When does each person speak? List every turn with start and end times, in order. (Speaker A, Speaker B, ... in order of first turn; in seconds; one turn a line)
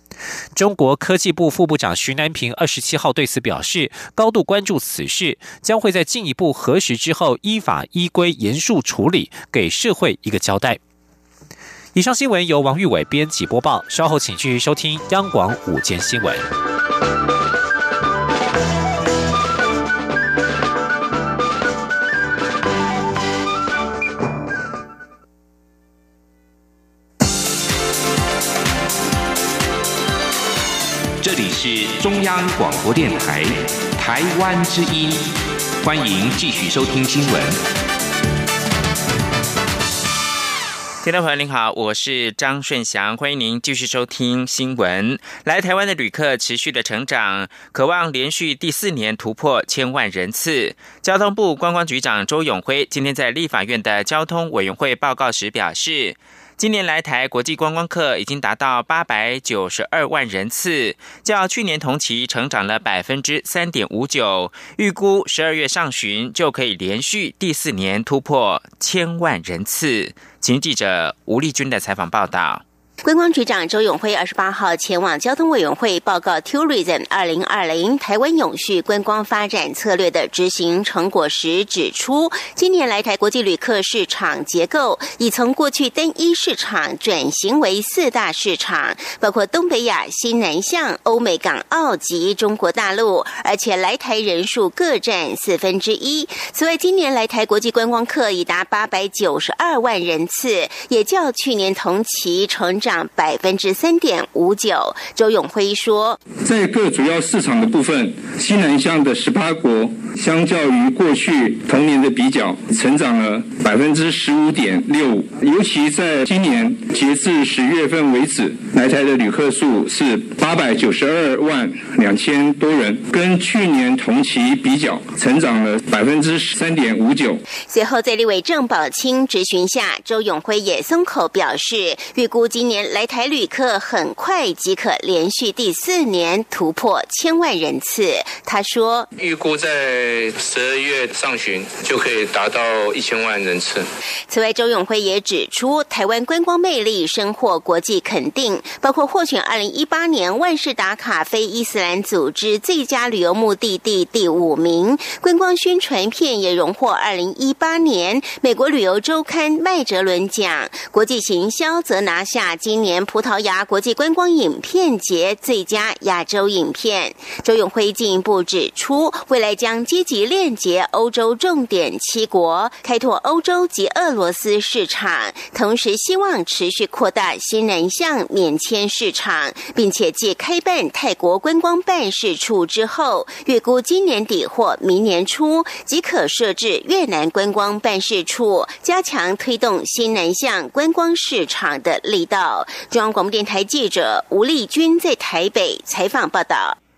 Speaker A: 0.6-10.8
Speaker A: 11.9-16.5
Speaker B: 31.2-35.3
Speaker B: 35.8-37.6
Speaker C: 41.0-72.6
Speaker D: 73.0-106.2
Speaker E: 106.4-127.4
Speaker D: 127.7-139.1
Speaker F: 139.2-143.8
Speaker D: 144.3-196.8